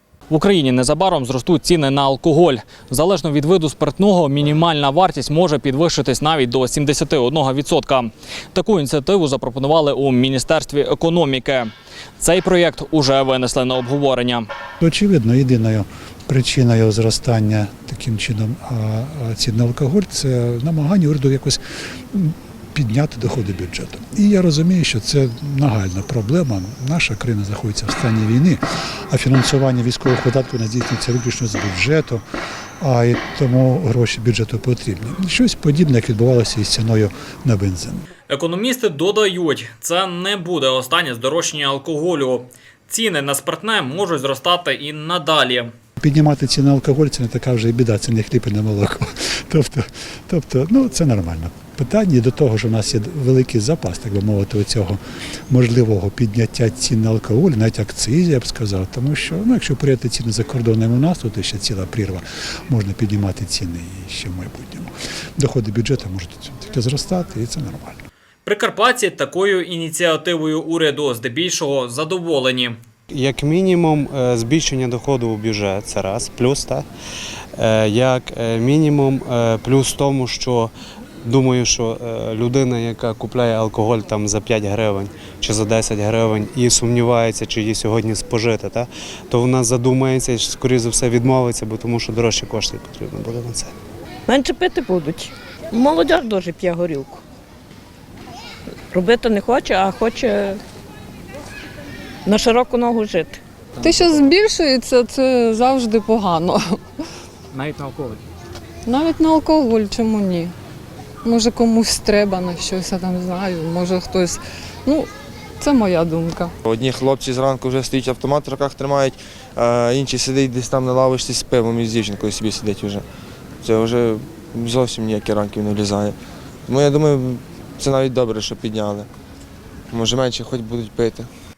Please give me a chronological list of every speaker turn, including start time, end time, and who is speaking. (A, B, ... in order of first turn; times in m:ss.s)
0:00.3-0:14.5 A
0:14.8-0:21.6 B
0:22.1-0:32.2 B
0:32.8-0:38.1 B
0:38.3-0:45.7 A
0:46.0-1:08.0 B
1:08.4-1:12.8 A
1:13.1-1:16.8 C
1:17.6-1:20.7 C
1:21.2-1:33.7 C
1:34.3-1:37.2 D
1:38.9-1:40.6 D
1:42.2-1:43.4 D
1:43.8-1:46.8 E
1:48.8-1:50.5 E
1:51.2-1:55.1 E
1:55.6-1:56.5 E
1:56.6-2:03.0 F
2:03.6-2:06.2 F
2:06.7-2:09.1 F
2:09.9-2:11.3 F